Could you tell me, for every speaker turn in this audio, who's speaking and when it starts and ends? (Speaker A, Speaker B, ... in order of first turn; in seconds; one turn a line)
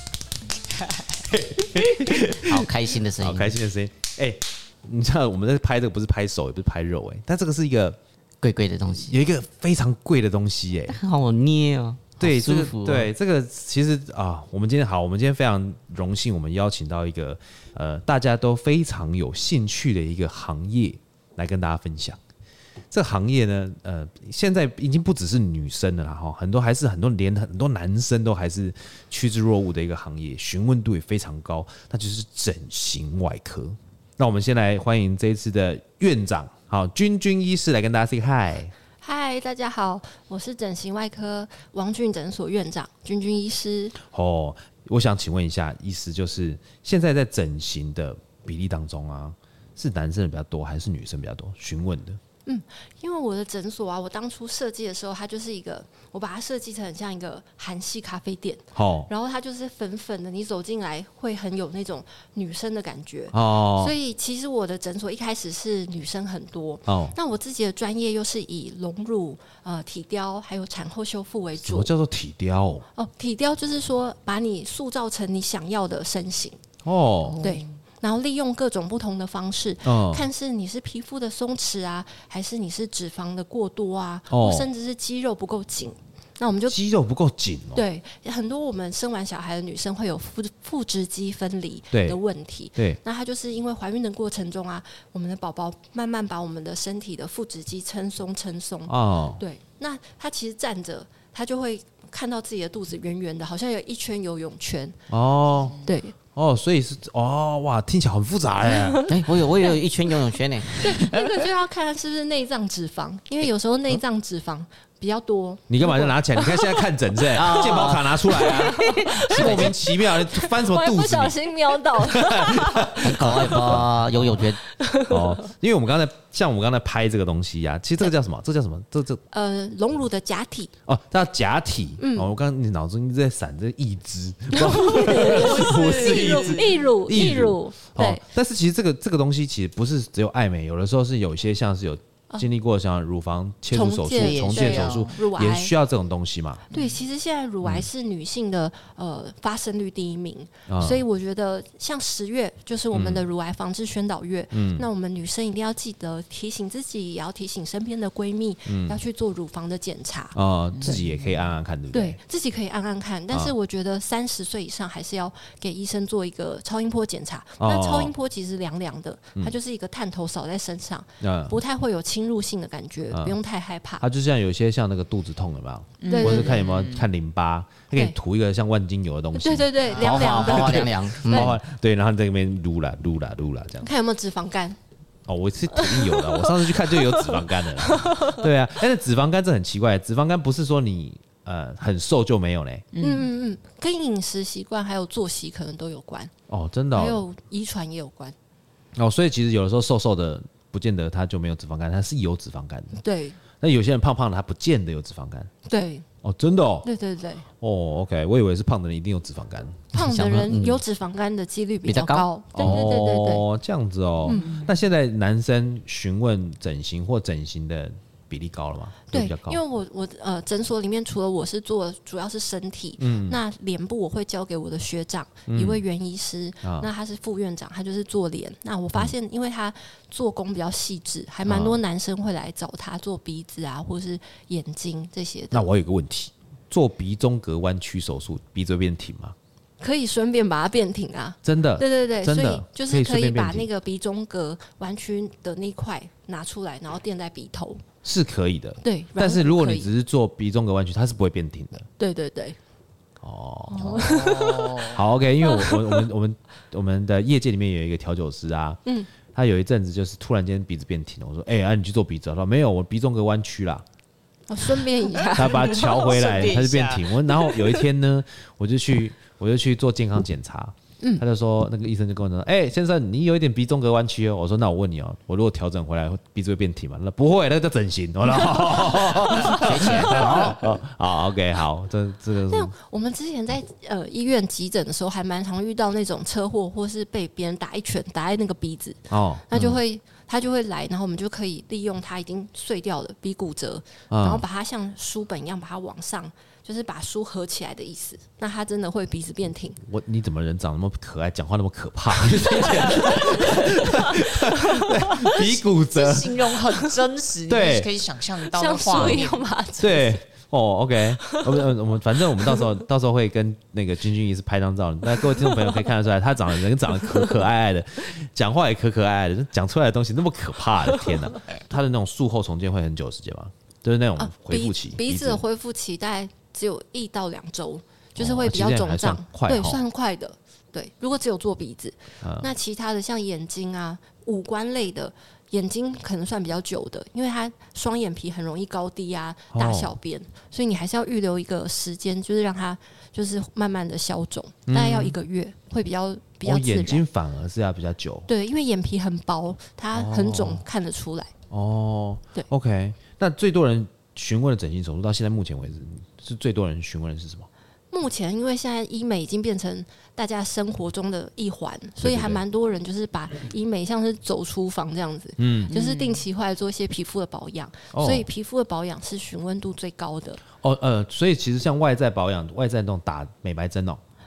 Speaker A: 0.8-1.2
Speaker B: 1.3-8.0
Speaker C: 2.3-3.5
Speaker C: 8.4-9.2
Speaker B: 9.0-11.0
Speaker C: 10.9-13.1
Speaker B: 12.2-22.2
Speaker B: 22.9-38.7
Speaker D: 39.0-44.0
Speaker B: 44.1-52.2
Speaker D: 52.5-71.9
Speaker B: 58.7-59.1
Speaker B: 63.3-63.9
Speaker B: 66.9-67.2
Speaker B: 71.6-72.8
Speaker D: 72.9-76.6
Speaker B: 76.8-77.4
Speaker A: 77.3-77.6
Speaker D: 77.4-86.8
Speaker B: 79.8-80.3
Speaker B: 84.3-84.7
Speaker B: 86.7-87.8
Speaker D: 87.7-105.0
Speaker B: 91.9-92.2
Speaker B: 98.9-99.4
Speaker B: 105.1-109.1
Speaker D: 105.8-106.1
Speaker D: 108.7-109.1
Speaker C: 109.1-111.1
Speaker D: 110.7-116.9
Speaker B: 115.7-121.3
Speaker C: 117.3-119.8
Speaker D: 118.3-123.8
Speaker B: 121.9-124.5
Speaker C: 123.0-124.6
Speaker D: 124.8-125.3
Speaker B: 125.1-129.2
Speaker D: 129.3-130.7
Speaker B: 130.8-146.6
Speaker D: 132.0-132.3
Speaker D: 134.5-138.2
Speaker A: 134.9-136.9
Speaker D: 143.7-145.7
Speaker A: 144.1-145.2
Speaker D: 146.7-160.3
Speaker A: 146.7-147.0
Speaker B: 150.7-151.0
Speaker B: 152.9-153.2
Speaker B: 154.5-154.9
Speaker B: 158.7-159.0
Speaker B: 160.3-162.2
Speaker A: 160.7-161.4
Speaker D: 161.9-174.0
Speaker B: 167.6-168.1
Speaker B: 171.2-171.6
Speaker B: 173.1-173.4
Speaker B: 174.0-183.9
Speaker A: 176.0-177.1
Speaker D: 176.1-176.6
Speaker D: 179.3-181.5
Speaker C: 179.9-181.6
Speaker D: 183.8-184.8
Speaker B: 185.3-192.9
Speaker D: 185.7-188.4
Speaker A: 192.9-193.3
Speaker D: 193.0-196.3
Speaker B: 196.5-197.2
Speaker D: 196.9-198.3
Speaker B: 198.9-203.0
Speaker D: 203.0-203.4
Speaker B: 203.6-205.5
Speaker D: 205.7-206.1
Speaker B: 206.2-206.9
Speaker D: 206.8-207.4
Speaker B: 207.6-209.9
Speaker D: 209.9-213.4
Speaker C: 209.9-210.8
Speaker C: 211.8-212.2
Speaker B: 212.5-219.6
Speaker D: 214.2-214.6
Speaker A: 214.3-214.7
Speaker D: 219.1-235.6
Speaker B: 223.0-223.4
Speaker B: 225.5-225.8
Speaker B: 226.6-226.9
Speaker B: 231.4-231.8
Speaker B: 235.5-239.3
Speaker D: 239.8-247.8
Speaker B: 241.4-243.7
Speaker B: 248.0-251.8
Speaker D: 248.8-249.9
Speaker D: 252.0-252.6
Speaker B: 253.2-254.2
Speaker D: 253.7-256.0
Speaker A: 253.8-254.9
Speaker B: 254.8-263.8
Speaker D: 258.8-259.1
Speaker D: 264.5-266.6
Speaker A: 265.2-267.8
Speaker B: 265.3-282.7
Speaker D: 278.3-280.4
Speaker C: 279.4-280.6
Speaker D: 282.5-299.8
Speaker B: 289.1-289.8
Speaker B: 294.1-294.4
Speaker B: 299.8-306.6
Speaker D: 302.7-305.5
Speaker A: 305.9-309.4
Speaker B: 307.5-307.9
Speaker D: 308.5-310.2
Speaker B: 308.9-309.2
Speaker B: 309.8-325.4
Speaker D: 311.2-311.6
Speaker D: 324.2-347.0
Speaker B: 328.2-329.8
Speaker B: 332.2-332.5
Speaker B: 339.5-339.9
Speaker B: 344.7-345.2
Speaker B: 346.4-348.3
Speaker D: 348.3-351.3
Speaker B: 349.9-350.6
Speaker B: 351.5-357.5
Speaker D: 357.9-370.4
Speaker B: 362.0-362.4
Speaker B: 365.4-365.7
Speaker A: 365.7-366.2
Speaker B: 367.9-368.3
Speaker B: 370.6-374.0